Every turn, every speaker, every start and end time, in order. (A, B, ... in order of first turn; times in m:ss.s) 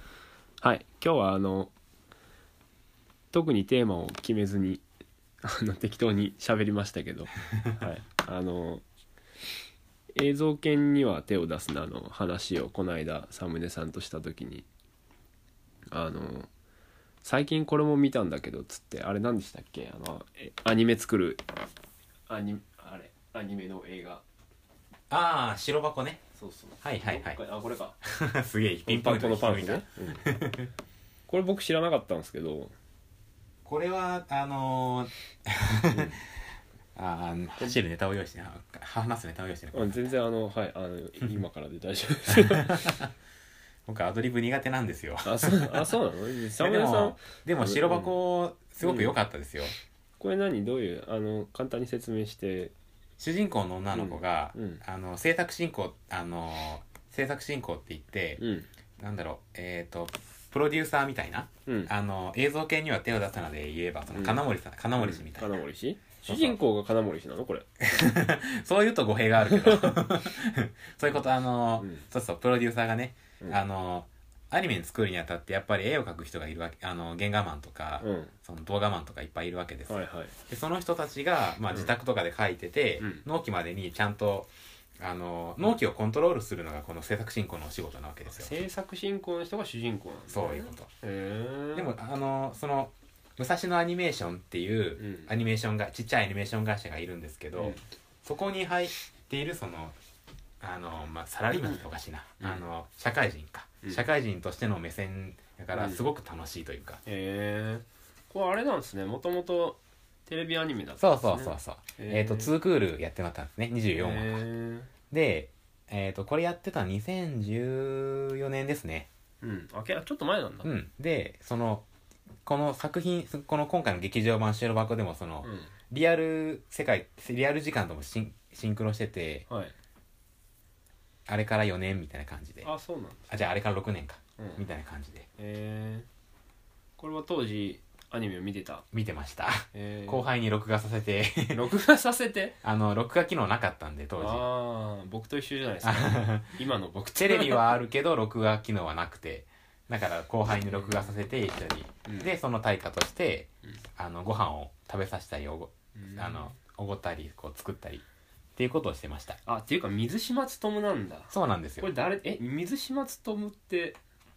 0:00.6-0:01.7 A
0:03.3-0:04.8 A
0:05.4-0:08.8 A
0:10.1-0:14.7 A
0:15.9-0:16.5 A
0:17.2-0:21.4 A
0:22.3-0:24.2 A
0:25.1-0:26.2 B
0:26.3-0:28.0 A
0:26.8-0:27.4 B
0:28.0-0:30.7 B
0:28.8-0:30.4 A
0:31.3-0:32.7 A
0:33.6-0:36.4 B
0:35.9-0:36.2 A
0:37.0-0:40.0 B
0:39.7-0:43.1 A
0:42.6-0:43.0 B
0:43.9-0:45.9 B
0:45.2-0:48.2 A
0:46.5-0:49.7 B
0:48.8-0:49.2 A
0:50.2-0:52.7 A
0:53.2-0:58.4 B
0:53.9-0:54.8 A
0:58.4-0:58.7 A
0:59.0-1:05.6 B
1:01.6-1:01.9 A
1:04.1-1:04.4 A
1:05.0-1:07.6 A
1:06.2-1:06.6 B
1:07.8-1:28.6 B
1:09.4-1:10.2 A
1:11.8-1:12.0 A
1:18.0-1:18.3 A
1:19.8-1:20.3 A
1:28.3-1:31.9 A
1:30.3-1:30.9 B
1:31.7-1:40.0 B
1:35.0-1:35.3 A
1:37.5-1:37.8 A
1:40.6-1:47.0 B
1:41.5-1:41.8 A
1:42.4-1:42.6 A
1:45.7-1:46.1 A
1:47.0-1:52.5 A
1:51.0-1:54.4 B
1:53.9-1:54.9 A
1:55.1-1:59.1 B
1:59.4-2:00.7 A
2:00.6-2:01.8 B
2:02.4-2:09.4 B
2:05.4-2:05.7 A
2:09.5-2:09.7 A
2:11.3-2:12.7 B
2:12.6-2:13.4 A
2:13.3-2:15.3 B
2:15.4-2:16.1 A
2:17.0-2:18.8 A
2:18.9-2:21.7 B
2:19.7-2:20.3 A
2:21.5-2:22.5 A
2:22.6-2:24.4 B
2:24.2-2:27.8 A
2:25.8-2:26.6 B
2:27.2-2:38.0 B
2:30.7-2:31.2 A
2:32.0-2:32.3 A
2:35.9-2:36.5 A
2:38.6-2:39.4 B
2:39.4-2:44.0 A
2:41.3-2:41.9 B